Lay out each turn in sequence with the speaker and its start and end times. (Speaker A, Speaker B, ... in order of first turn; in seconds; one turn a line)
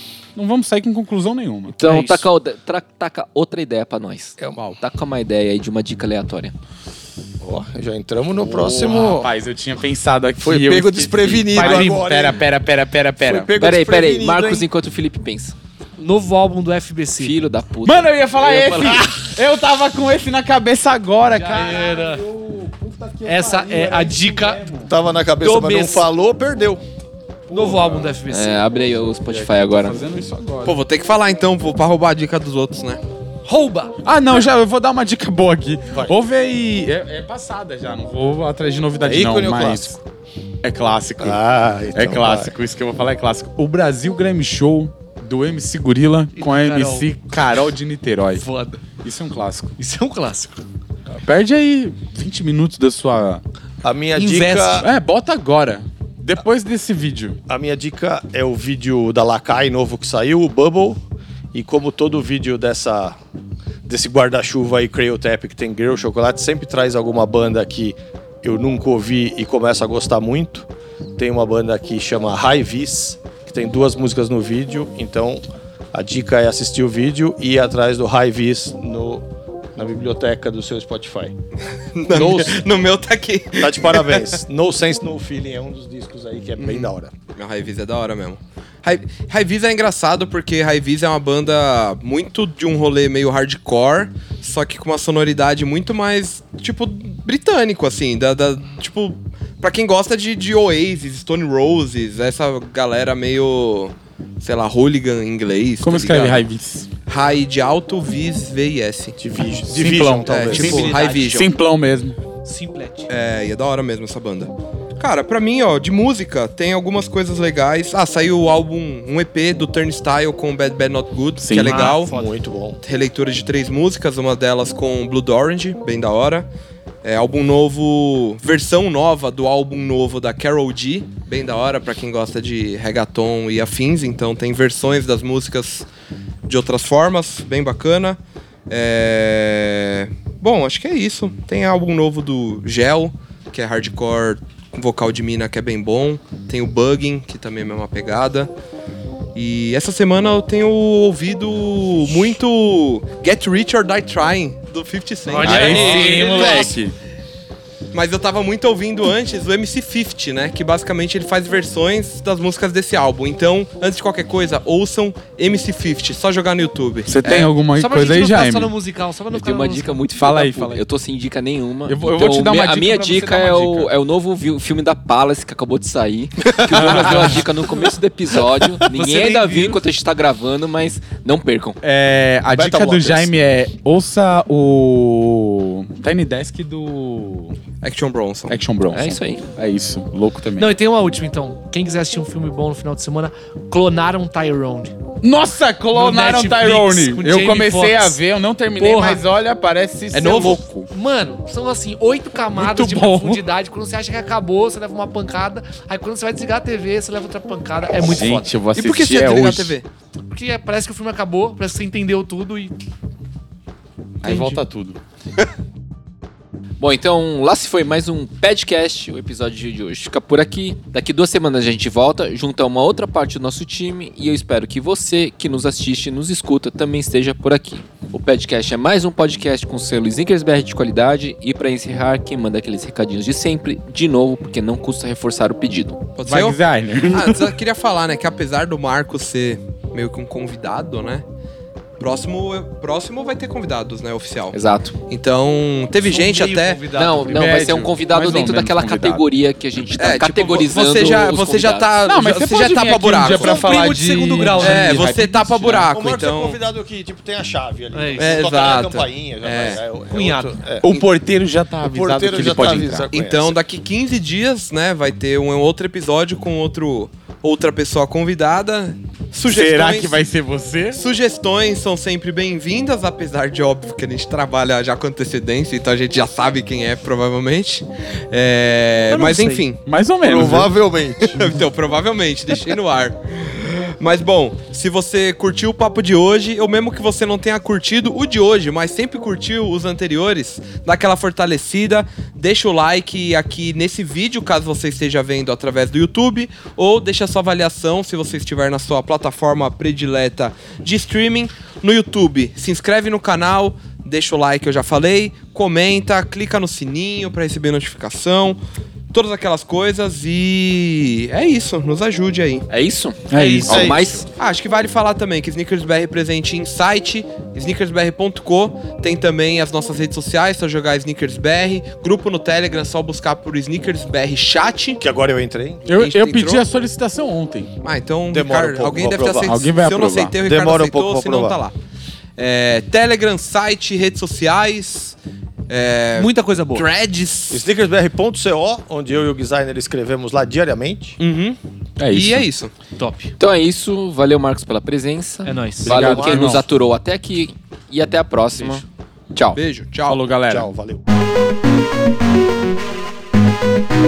Speaker A: 0.3-1.7
Speaker B: 1.7-6.5
Speaker C: 1.8-2.3
Speaker A: 4.5-4.8
Speaker D: 7.4-9.3
Speaker A: 8.4-13.5
Speaker D: 10.4-12.4
Speaker D: 13.2-14.7
Speaker B: 13.6-15.6
Speaker C: 16.0-17.4
Speaker B: 17.2-19.0
Speaker A: 17.8-24.9
Speaker C: 18.5-19.1
Speaker C: 21.3-22.2
Speaker C: 23.2-24.6
Speaker D: 24.9-26.8
Speaker C: 25.4-26.1
Speaker A: 27.5-28.2
Speaker C: 27.5-28.6
Speaker B: 28.3-30.0
Speaker A: 29.2-30.8
Speaker E: 30.6-33.0
Speaker C: 33.5-34.0
Speaker A: 34.0-40.0
Speaker D: 39.0-40.0
Speaker A: 40.6-48.4
Speaker D: 41.2-42.5
Speaker C: 46.4-47.1
Speaker C: 48.4-48.9
Speaker A: 49.0-49.7
Speaker C: 49.8-50.6
Speaker A: 51.1-53.4
Speaker D: 53.8-54.9
Speaker C: 54.1-54.9
Speaker A: 54.8-57.4
Speaker D: 57.5-61.0
Speaker D: 61.5-63.2
Speaker D: 63.9-81.4
Speaker E: 82.0-84.4
Speaker D: 82.1-82.6
Speaker D: 83.6-87.1
Speaker E: 86.6-106.4
Speaker A: 105.8-106.9
Speaker E: 107.1-109.2
Speaker D: 109.2-111.0
Speaker A: 109.6-112.2
Speaker E: 110.2-111.5
Speaker C: 110.5-111.2
Speaker C: 112.4-113.1
Speaker E: 113.1-122.1
Speaker A: 121.4-121.9
Speaker C: 121.5-122.3
Speaker D: 121.9-122.8
Speaker E: 122.8-126.5
Speaker E: 127.0-135.9
Speaker E: 136.4-138.2
Speaker E: 138.7-148.5
Speaker E: 149.3-156.7
Speaker C: 155.3-156.8
Speaker A: 155.4-156.9
Speaker E: 157.9-167.5
Speaker A: 167.1-168.7
Speaker C: 167.7-170.0
Speaker B: 169.3-181.8
Speaker A: 170.2-170.8
Speaker A: 171.9-173.9
Speaker A: 176.7-177.5
Speaker D: 176.7-177.0
Speaker C: 179.0-179.5
Speaker A: 181.8-187.6
Speaker D: 182.5-183.3
Speaker E: 187.8-188.6
Speaker A: 188.5-190.8
Speaker B: 188.9-189.5
Speaker C: 190.6-194.9
Speaker A: 195.2-200.9
Speaker C: 195.9-198.2
Speaker C: 198.8-199.2
Speaker E: 200.1-200.6
Speaker C: 200.3-208.6
Speaker A: 202.5-203.4
Speaker A: 208.0-209.7
Speaker E: 208.7-209.9
Speaker C: 210.3-212.7
Speaker A: 214.2-215.0
Speaker B: 214.3-214.6
Speaker B: 216.8-236.0
Speaker E: 236.2-241.2
Speaker A: 236.3-237.6
Speaker E: 242.0-244.6
Speaker B: 244.5-245.0
Speaker E: 245.1-246.9
Speaker C: 246.1-247.5
Speaker B: 246.9-251.9
Speaker A: 247.2-249.2
Speaker E: 249.9-253.7
Speaker A: 252.1-255.9
Speaker C: 253.3-255.1
Speaker E: 254.6-256.6
Speaker D: 255.9-260.9
Speaker C: 257.9-258.4
Speaker E: 258.2-259.8
Speaker C: 260.1-260.6
Speaker A: 260.8-263.1
Speaker D: 261.9-263.6
Speaker E: 263.1-270.2
Speaker A: 269.4-271.0
Speaker E: 270.9-279.8
Speaker C: 279.1-279.7
Speaker A: 279.9-280.7
Speaker D: 280.2-281.4
Speaker E: 281.2-308.6
Speaker E: 309.1-312.6
Speaker B: 312.7-314.3
Speaker A: 313.3-314.0
Speaker D: 313.6-314.0
Speaker E: 313.7-325.0
Speaker D: 325.0-325.9
Speaker A: 325.9-327.7
Speaker E: 326.0-326.6
Speaker E: 327.8-331.7
Speaker D: 328.3-329.6
Speaker A: 329.4-330.4
Speaker D: 330.4-331.6
Speaker E: 332.4-335.2
Speaker E: 335.7-337.7
Speaker C: 336.1-336.9
Speaker D: 337.5-341.2
Speaker E: 341.2-342.7
Speaker A: 342.0-342.5
Speaker C: 343.0-343.3
Speaker B: 343.4-349.6
Speaker C: 345.4-345.9
Speaker A: 345.8-346.6
Speaker D: 345.9-346.7
Speaker E: 349.6-350.2
Speaker A: 350.1-350.7
Speaker D: 350.5-351.0